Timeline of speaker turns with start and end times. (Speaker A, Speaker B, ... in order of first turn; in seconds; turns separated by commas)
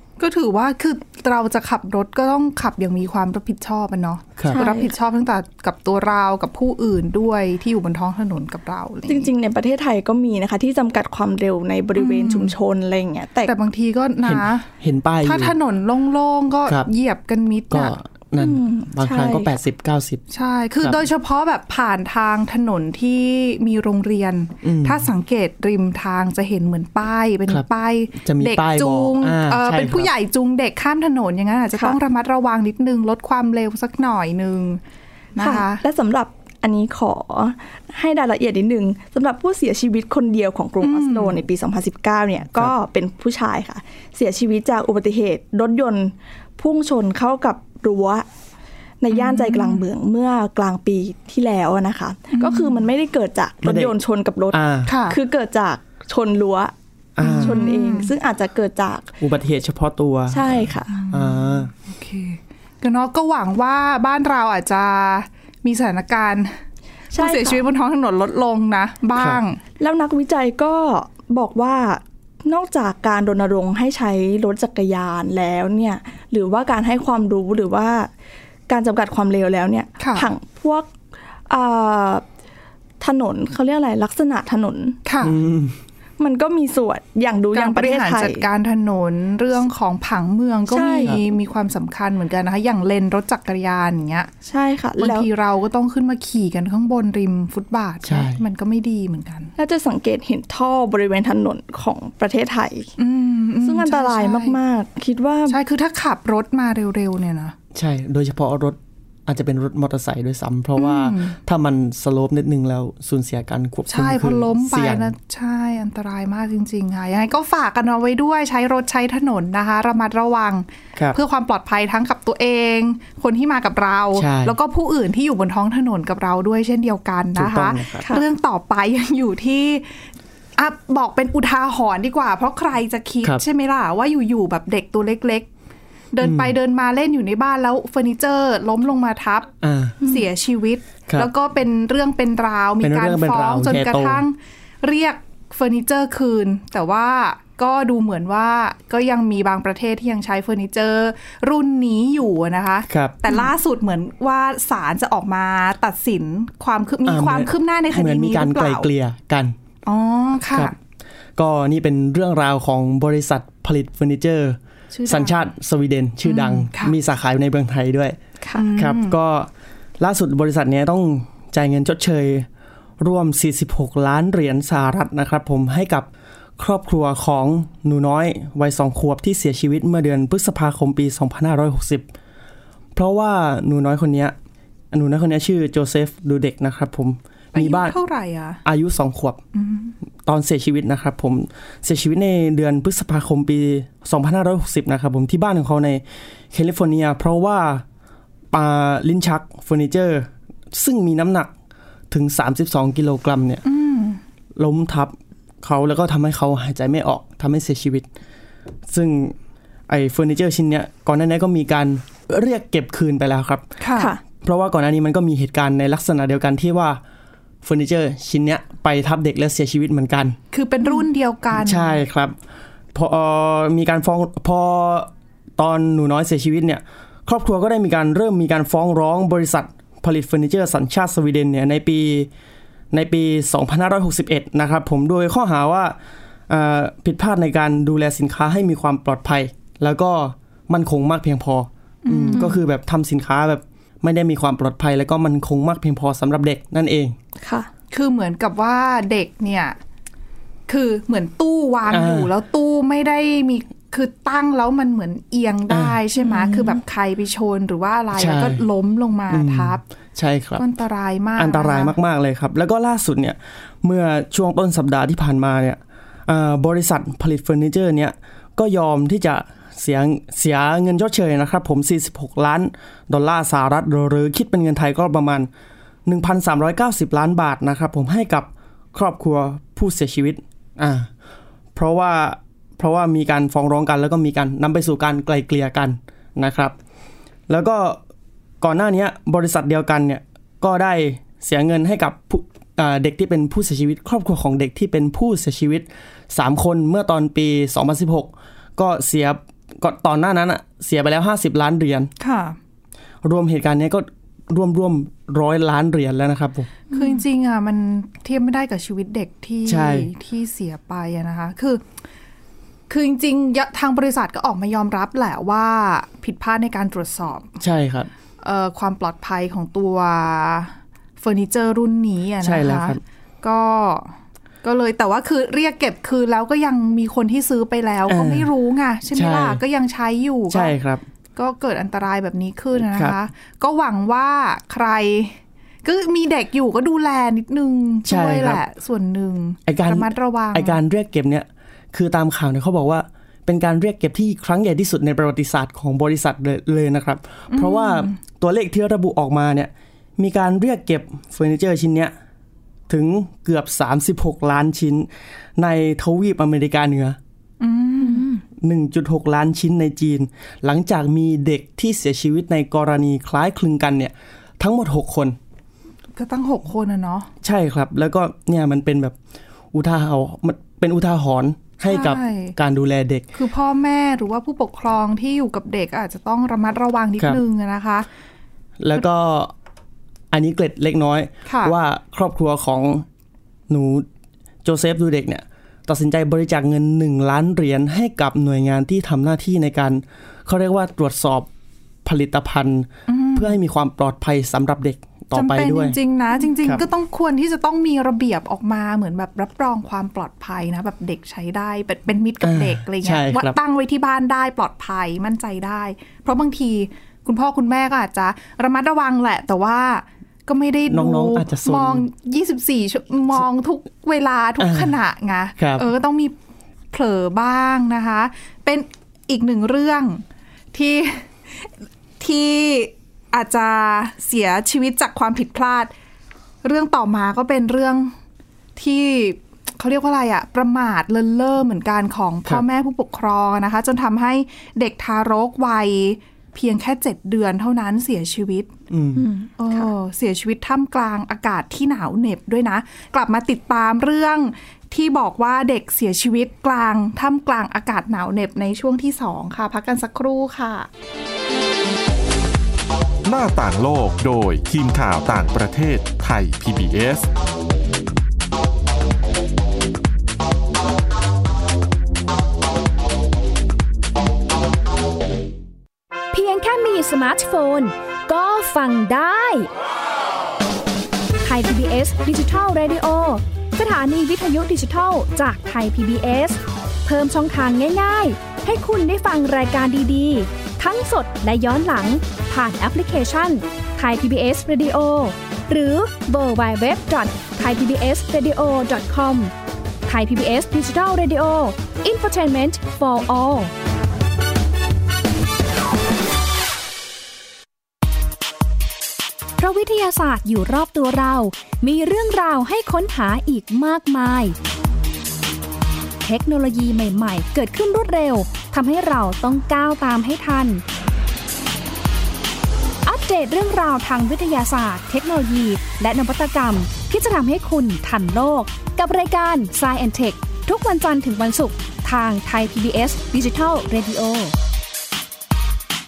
Speaker A: 0.2-9.3, Speaker B: 4.4-4.6, Speaker C: 4.5-4.9, Speaker C: 9.1-13.5, Speaker A: 12.0-12.5, Speaker A: 13.4-14.7, Speaker B: 14.2-15.6, Speaker A: 15.2-17.9, Speaker B: 17.7-20.2, Speaker C: 18.4-19.6, Speaker A: 20.3-34.8, Speaker B: 24.6-25.1, Speaker B: 28.2-30.1, Speaker A: 35.4-35.8, Speaker C: 35.4-48.3, Speaker A: 40.8-41.4, Speaker C: 49.0-59.1, Speaker A: 49.1-49.8, Speaker A: 52.3-52.9, Speaker B: 53.6-53.9, Speaker B: 54.5-55.0, Speaker A: 54.9-55.2, Speaker B: 57.2-57.6, Speaker A: 57.2-58.1, Speaker B: 59.2-61.7, Speaker C: 60.3-60.9, Speaker A: 60.9-66.6, Speaker C: 67.1-67.7, Speaker A: 67.1-69.6, Speaker B: 69.2-69.4, Speaker C: 69.8-78.1, Speaker C: 78.7-80.9, Speaker A: 80.0-80.3, Speaker C: 81.5-82.2, Speaker C: 83.0-85.0, Speaker A: 85.1-85.3, Speaker B: 85.2-85.8, Speaker C: 86.2-88.5, Speaker A: 87.5-94.3, Speaker C: 90.7-91.2, Speaker C: 94.5-95.3, Speaker A: 95.0-99.5, Speaker B: 98.1-98.4, Speaker C: 99.6-102.9, Speaker A: 103.0-104.6, Speaker C: 103.6-105.6, Speaker A: 105.5-107.5, Speaker B: 107.7-115.1, Speaker A: 110.8-111.4, Speaker A: 113.9-130.0, Speaker B: 124.2-124.5, Speaker B: 127.3-128.1, Speaker A: 130.6-135.5, Speaker A: 136.1-139.5, Speaker B: 136.2-136.5, Speaker B: 139.6-140.0, Speaker A: 140.0-158.9, Speaker B: 142.8-144.2, Speaker B: 152.9-153.3, Speaker B: 157.1-159.6, Speaker A: 159.9-160.8, Speaker B: 161.4-168.2, Speaker A: 164.9-165.5, Speaker A: 166.2-167.0, Speaker C: 168.4-168.7, Speaker A: 168.6-169.2, Speaker B: 168.8-172.5, Speaker B: 173.0-176.1, Speaker B: 176.6-182.1, Speaker B: 182.9-184.3, Speaker B: 184.9-187.9, Speaker A: 187.5-188.6, Speaker B: 188.7-189.4, Speaker A: 189.6-189.9, Speaker B: 190.2-196.0, Speaker B: 196.5-197.8, Speaker B: 198.5-201.5, Speaker B: 202.1-203.6, Speaker A: 203.7-204.2, Speaker B: 204.6-208.1, Speaker B: 208.9-209.3, Speaker B: 209.9-213.7, Speaker A: 213.8-214.1, Speaker C: 214.0-214.2, Speaker B: 214.4-217.0, Speaker B: 217.6-220.4, Speaker A: 220.5-222.0, Speaker B: 221.5-222.3, Speaker B: 222.9-232.3, Speaker B: 232.9-236.0, Speaker B: 236.5-247.2, Speaker A: 242.1-242.6, Speaker C: 247.4-247.7, Speaker A: 247.9-249.8, Speaker A: 250.7-259.8, Speaker B: 251.9-252.3, Speaker B: 255.7-256.0, Speaker C: 256.2-256.8, Speaker B: 258.1-258.6, Speaker B: 259.3-260.6, Speaker A: 260.6-262.0, Speaker B: 261.4-275.5, Speaker B: 276.1-281.1, Speaker B: 281.8-286.8, Speaker B: 287.5-288.0, Speaker B: 288.6-302.1, Speaker A: 302.2-302.6, Speaker B: 303.2-306.8, Speaker A: 306.9-311.8, Speaker C: 306.9-307.2, Speaker B: 309.7-310.1, Speaker A: 312.9-317.6, Speaker B: 317.6-318.1, Speaker A: 318.4-330.7, Speaker B: 322.4-323.0, Speaker B: 328.1-328.5, Speaker B: 329.1-329.6, Speaker B: 330.5-331.0, Speaker A: 331.4-340.8, Speaker B: 332.8-333.2, Speaker B: 338.1-338.6, Speaker B: 339.7-352.1, Speaker A: 347.5-348.1, Speaker B: 352.9-357.2, Speaker A: 357.6-358.3, Speaker C: 358.0-358.3, Speaker B: 358.6-365.4, Speaker A: 366.2-367.3, Speaker B: 367.4-369.1, Speaker B: 369.7-373.3, Speaker A: 371.9-372.6, Speaker A: 373.3-378.1, Speaker B: 378.8-379.5, Speaker B: 380.3-383.1, Speaker A: 381.5-381.7, Speaker B: 383.7-384.1, Speaker B: 384.6-391.5, Speaker B: 392.1-396.0, Speaker A: 393.1-393.6, Speaker A: 395.3-416.3, Speaker B: 402.4-403.6, Speaker B: 410.9-412.1, Speaker B: 414.6-415.0, Speaker B: 415.6-415.9, Speaker A: 416.9-420.2, Speaker A: 420.7-425.9, Speaker A: 426.6-428.1, Speaker A: 428.8-438.7, Speaker B: 438.9-439.3, Speaker C: 439.2-439.9, Speaker A: 439.6-450.9, Speaker D: 453.2-457.3, Speaker E: 466.3-469.7, Speaker E: 471.4-489.5, Speaker E: 490.1-493.7, Speaker E: 499.6-504.6, Speaker E: 506.2-510.8, Speaker E: 513.0-524.5